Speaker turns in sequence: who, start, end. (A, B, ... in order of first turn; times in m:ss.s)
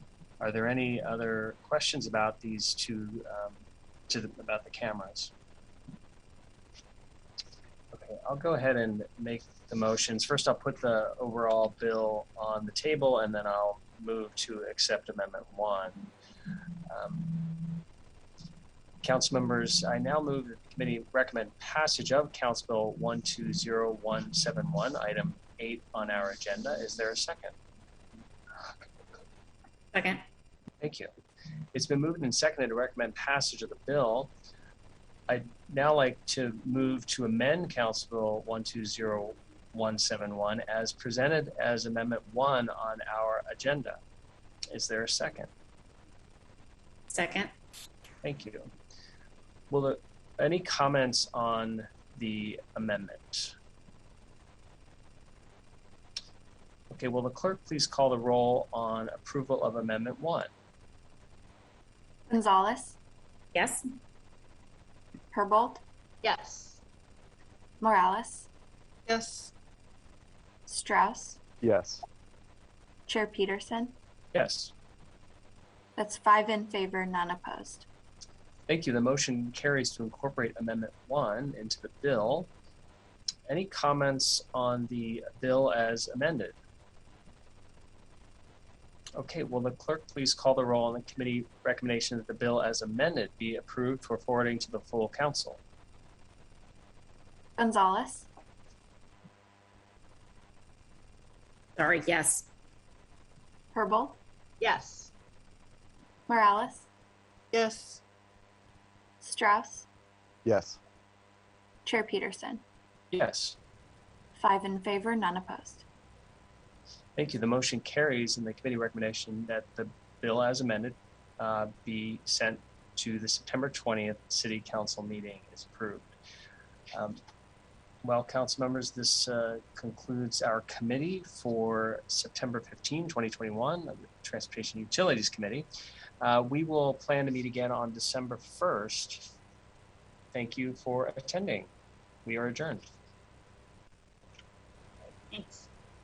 0:00.4-0:05.3 A
0:07.9-0:16.1 A
0:16.9-0:17.8 A
0:19.0-0:27.5 A
0:29.9-0:30.2 B
0:30.8-0:31.1 A
0:31.7-0:34.3 A
0:35.3-0:44.0 A
0:44.7-0:45.5 A
0:47.1-0:47.5 B
0:48.2-0:48.7 A
0:49.7-0:53.5 A
0:56.9-1:00.5 A
1:02.3-1:03.0 C
1:03.5-1:03.8 B
1:05.3-1:05.8 C
1:06.2-1:06.8 D
1:07.8-1:08.5 C
1:09.1-1:09.5 D
1:10.7-1:11.4 C
1:11.6-1:12.0 D
1:13.1-1:14.0 C
1:14.3-1:14.7 A
1:16.0-1:17.8 C
1:18.7-1:22.5 A
1:23.5-1:26.6 A
1:29.2-1:35.6 A
1:37.6-1:38.3 C
1:41.8-1:42.5 B
1:43.7-1:44.2 C
1:44.6-1:45.1 D
1:46.3-1:46.9 C
1:47.5-1:48.0 D
1:49.2-1:49.8 C
1:51.8-1:52.6 C
1:53.1-1:53.6 A
1:54.4-1:55.8 C
1:57.2-2:06.1 A
2:06.9-2:07.2 A
2:08.0-2:15.7 A
2:16.2-2:19.3 A
2:20.3-2:21.7 A
2:22.2-2:22.8 A
2:25.3-2:25.6 B